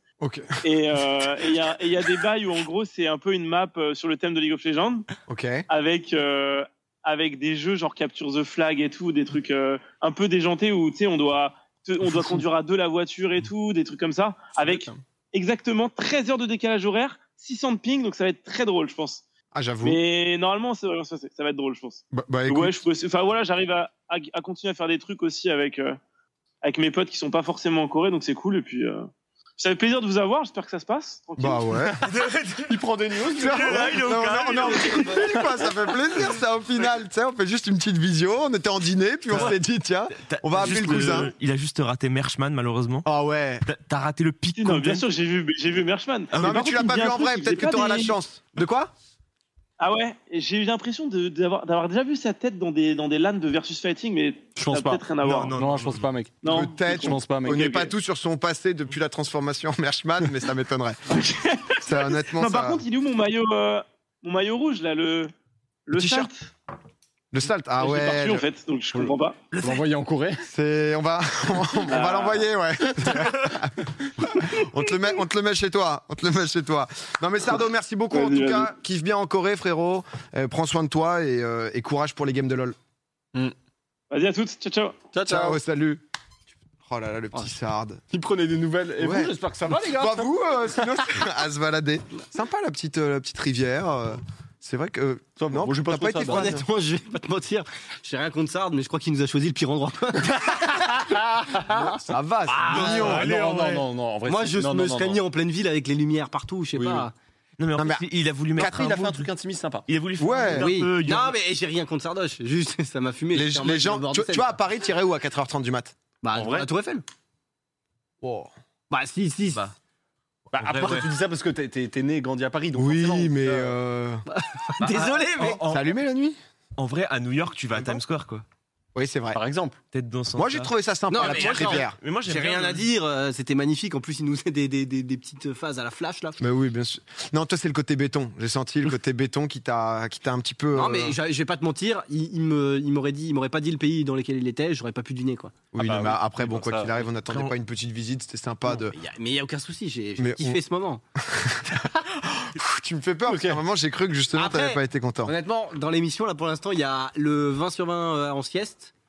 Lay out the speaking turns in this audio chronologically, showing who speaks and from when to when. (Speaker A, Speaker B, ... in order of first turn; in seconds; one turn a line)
Speaker A: 0.2-0.5
Speaker B: 0.6-5.1
Speaker A: 5.3-5.7
Speaker B: 5.7-19.2
Speaker A: 19.5-20.0
Speaker B: 19.8-26.0
Speaker A: 22.1-22.8
Speaker B: 26.6-29.1
Speaker B: 29.6-31.8
Speaker A: 31.4-32.0
Speaker C: 32.0-35.7
Speaker D: 32.7-33.7
Speaker A: 33.3-41.3
Speaker C: 39.3-39.6
Speaker C: 40.1-43.1
Speaker A: 43.0-43.6
Speaker C: 43.6-45.1
Speaker B: 44.6-48.2
Speaker C: 46.3-46.6
Speaker A: 46.4-48.9
Speaker B: 49.8-55.6
Speaker D: 54.6-57.6
Speaker C: 55.2-56.1
Speaker B: 56.4-57.9
Speaker A: 56.5-61.0
Speaker B: 61.1-65.3
Speaker A: 61.8-62.8
Speaker B: 65.9-66.5
Speaker A: 65.9-66.3
Speaker A: 67.3-68.4
Speaker B: 67.8-69.4
Speaker C: 69.5-69.9
Speaker D: 69.6-70.4
Speaker A: 70.4-82.8
Speaker B: 71.9-72.5
Speaker B: 78.1-78.7
Speaker B: 84.1-85.0
Speaker D: 85.1-85.6
Speaker A: 85.3-86.0
Speaker A: 86.8-88.0
Speaker D: 88.1-90.3
Speaker A: 89.0-96.7
Speaker D: 95.4-96.5
Speaker E: 96.2-101.2
Speaker D: 100.6-102.0
Speaker A: 102.1-103.3
Speaker E: 102.5-103.2
Speaker C: 102.7-103.9
Speaker D: 102.7-105.2
Speaker E: 104.2-107.1
Speaker A: 106.8-107.1
Speaker C: 107.6-109.3
Speaker A: 107.8-108.0
Speaker A: 108.6-109.1
Speaker D: 109.0-109.8
Speaker C: 109.9-111.4
Speaker A: 110.2-110.7
Speaker E: 110.5-114.6
Speaker A: 113.3-116.0
Speaker E: 116.2-117.0
Speaker A: 118.2-118.5
Speaker E: 118.9-119.7
Speaker D: 120.5-123.8
Speaker C: 120.6-121.1
Speaker E: 120.7-121.1
Speaker A: 122.8-124.2
Speaker E: 124.3-125.6
Speaker C: 124.8-125.9
Speaker A: 125.6-126.4
Speaker C: 126.8-128.4
Speaker A: 129.0-129.4
Speaker D: 129.3-129.8
Speaker C: 129.9-132.9
Speaker A: 130.3-132.0
Speaker E: 131.1-136.4
Speaker A: 136.4-141.2
Speaker E: 140.8-145.7
Speaker A: 145.7-149.0
Speaker D: 145.8-147.0
Speaker E: 148.7-151.0
Speaker A: 150.2-150.6
Speaker A: 151.2-155.3
Speaker D: 153.3-153.6
Speaker E: 154.3-158.9